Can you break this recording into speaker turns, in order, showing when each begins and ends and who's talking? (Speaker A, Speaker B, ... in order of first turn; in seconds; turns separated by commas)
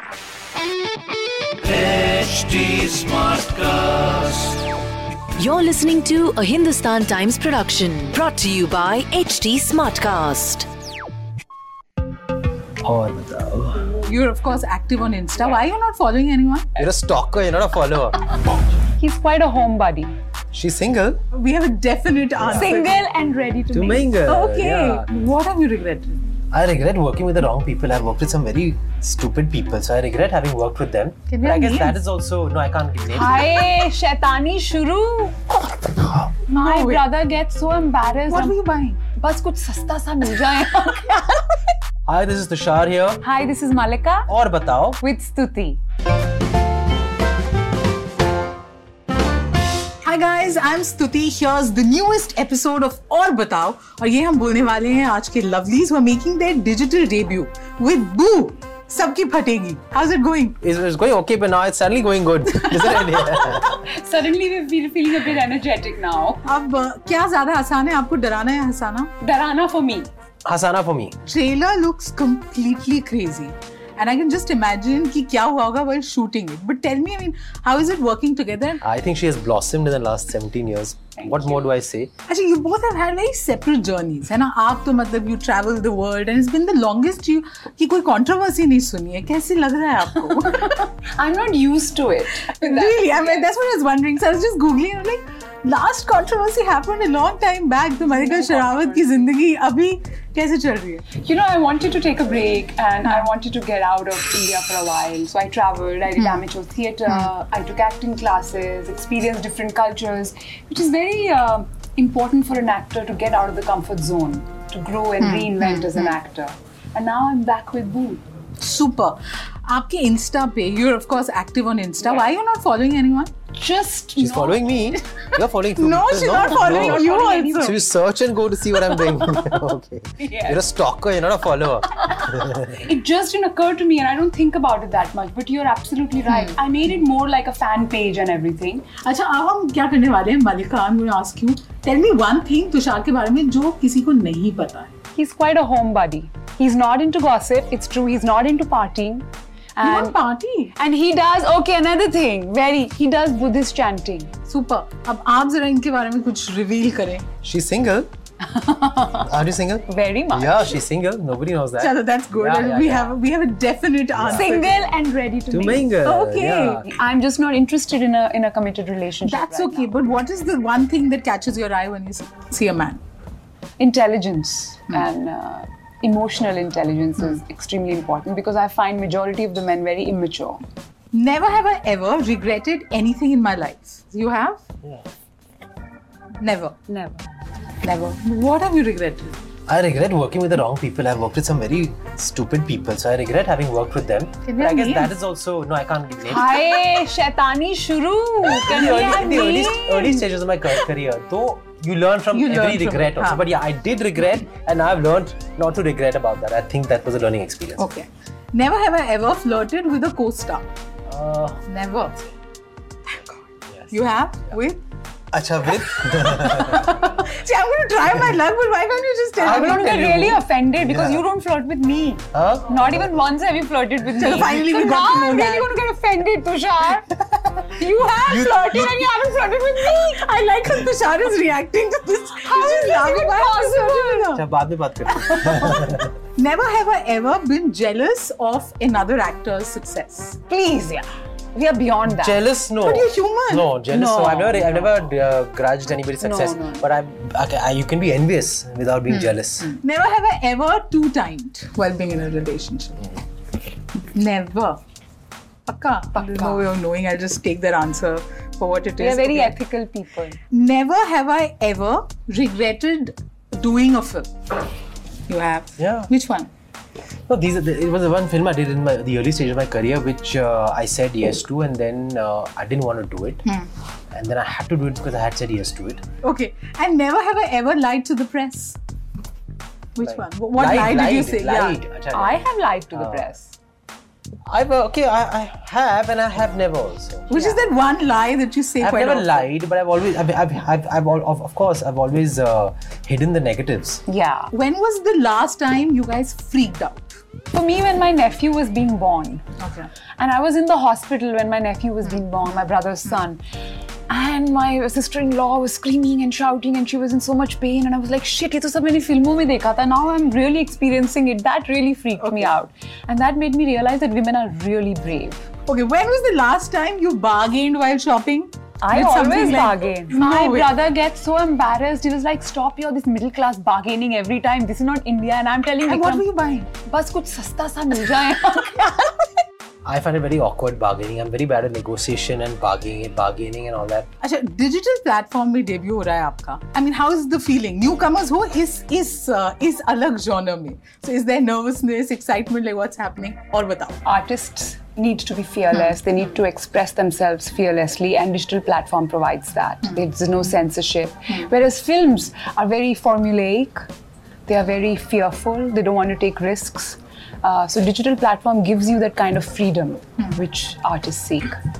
Speaker A: 1.8-4.4, Speaker B: 5.4-10.7, Speaker C: 12.8-14.0, Speaker D: 14.0-16.7, Speaker C: 16.8-18.2, Speaker E: 19.0-20.1, Speaker C: 20.5-21.2, Speaker D: 21.3-22.9, Speaker C: 22.4-22.8, Speaker E: 22.5-24.2, Speaker C: 23.7-25.1, Speaker D: 24.3-26.2, Speaker C: 26.5-33.7, Speaker D: 31.3-32.0, Speaker E: 33.1-38.5, Speaker D: 36.5-37.0, Speaker D: 38.3-39.0, Speaker E: 39.2-41.2, Speaker C: 42.1-43.2, Speaker E: 43.2-44.3, Speaker C: 44.3-45.0, Speaker E: 45.0-45.8, Speaker D: 50.0-60.6, Speaker C: 60.6-63.8, Speaker E: 62.9-66.4, Speaker D: 66.4-69.1, Speaker E: 69.2-70.1, Speaker C: 70.5-71.2, Speaker D: 71.3-78.8, Speaker C: 78.8-82.1, Speaker E: 81.2-81.7, Speaker D: 82.3-90.8, Speaker E: 90.4-93.5, Speaker D: 92.4-101.0, Speaker E: 98.0-99.3, Speaker E: 101.1-118.2, Speaker D: 106.2-106.4, Speaker D: 115.2-116.1, Speaker D: 118.6-123.3, Speaker E: 123.5-124.6, Speaker C: 124.2-132.8, Speaker D: 125.7-127.8, Speaker E: 126.4-127.9, Speaker D: 129.0-129.4, Speaker E: 130.2-130.6, Speaker E: 132.1-138.9, Speaker D: 139.0-144.9, Speaker E: 145.1-150.2, Speaker D: 149.8-150.7, Speaker E: 150.8-154.3, Speaker D: 154.5-157.2, Speaker C: 157.4-158.1, Speaker E: 158.5-159.3, Speaker C: 159.2-163.2, Speaker E: 159.9-160.8, Speaker D: 161.8-164.8, Speaker C: 164.2-164.5, Speaker E: 164.3-165.9, Speaker C: 165.5-166.9, Speaker D: 166.0-166.9, Speaker E: 166.8-169.9, Speaker D: 169.2-173.0, Speaker E: 173.8-180.6, Speaker D: 181.1-184.6, Speaker D: 186.4-186.8, Speaker E: 186.9-187.2, Speaker D: 187.8-189.4, Speaker C: 189.7-196.5, Speaker D: 194.4-195.1, Speaker E: 196.2-200.2, Speaker C: 198.4-207.8, Speaker D: 202.3-203.4, Speaker D: 207.8-210.7, Speaker C: 211.1-211.6, Speaker D: 211.7-212.3, Speaker D: 213.1-213.4, Speaker D: 213.9-214.8, Speaker C: 215.3-216.9, Speaker D: 215.9-220.1, Speaker C: 219.4-221.2, Speaker E: 219.4-227.1, Speaker C: 222.3-223.1, Speaker D: 224.1-225.7, Speaker E: 227.7-230.2, Speaker C: 228.2-229.1, Speaker D: 229.8-234.4, Speaker E: 232.4-234.3, Speaker C: 234.3-236.1, Speaker D: 235.2-240.4, Speaker E: 240.5-242.4, Speaker C: 242.1-249.7, Speaker D: 242.8-243.7, Speaker E: 243.9-244.9, Speaker E: 246.2-246.9, Speaker D: 249.1-253.2, Speaker D: 254.1-254.8, Speaker D: 255.7-259.6, Speaker E: 256.1-256.6, Speaker E: 259.0-260.4, Speaker D: 260.5-264.3, Speaker D: 265.3-266.5, Speaker C: 265.8-266.1, Speaker C: 267.3-273.4, Speaker C: 274.1-276.0, Speaker D: 276.2-278.8, Speaker D: 280.0-281.8, Speaker C: 280.0-282.4, Speaker E: 282.1-283.6, Speaker C: 282.9-283.3, Speaker C: 284.5-287.3, Speaker D: 287.3-289.5, Speaker E: 287.3-287.6, Speaker C: 288.8-294.0, Speaker E: 294.1-294.5, Speaker D: 294.5-297.2, Speaker E: 297.5-299.4, Speaker D: 299.6-299.9, Speaker E: 300.2-303.4, Speaker E: 304.1-315.5, Speaker D: 312.2-312.5, Speaker D: 315.7-320.7, Speaker E: 318.8-329.1, Speaker D: 325.8-326.7, Speaker C: 329.9-334.1, Speaker D: 334.2-344.0, Speaker E: 344.1-353.9, Speaker E: 354.5-361.6